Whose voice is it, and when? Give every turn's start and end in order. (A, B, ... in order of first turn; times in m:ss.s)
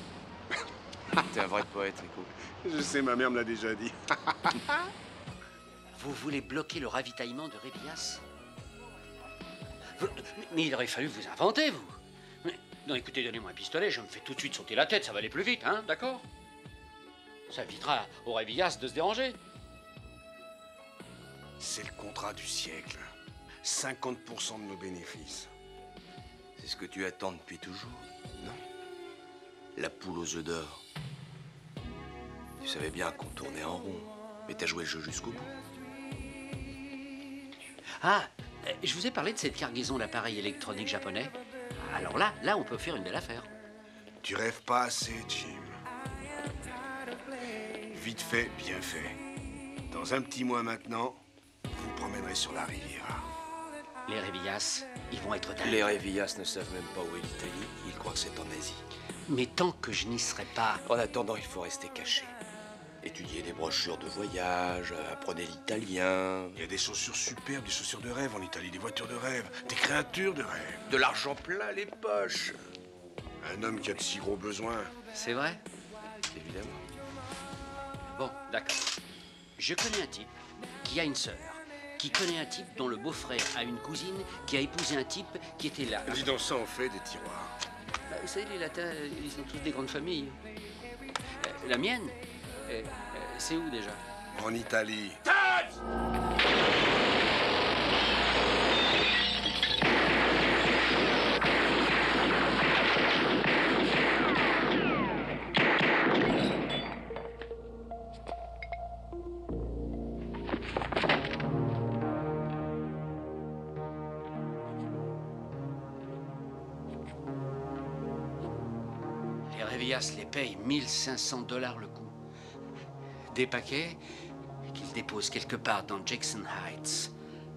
0:01.1-0:02.3 A
0:02.5-0:04.9 B
0:05.9-0:08.2 C
0:10.0-0:16.2 C
0:17.5-0:19.4 C
0:21.6-0:23.0 B
0:23.6-0:25.5 B
0:26.6-0:28.6 A
0:29.8-0:30.8 A
0:32.6-0:35.5 A
0:38.0-0:43.5 C
0:44.2-0:45.8 B
0:47.9-0:49.2 B
0:49.9-0:53.3 B
0:54.0-0:55.9 C
0:55.6-0:58.8 A
0:59.3-1:00.8 C
1:00.8-1:02.3 A
1:03.0-1:06.6 A
1:06.5-1:10.9 B
1:10.9-1:12.6 A
1:13.4-1:14.9 B
1:15.1-1:15.6 C
1:16.3-1:16.8 A
1:18.0-1:18.8 C
1:19.6-1:20.3 C
1:20.8-1:26.3 C
1:26.0-1:27.5 B
1:28.1-1:30.4 C
1:31.4-1:34.0 C
1:34.3-1:35.2 B
1:59.5-2:02.1 C
2:03.3-2:04.0 C
2:04.6-2:07.1 C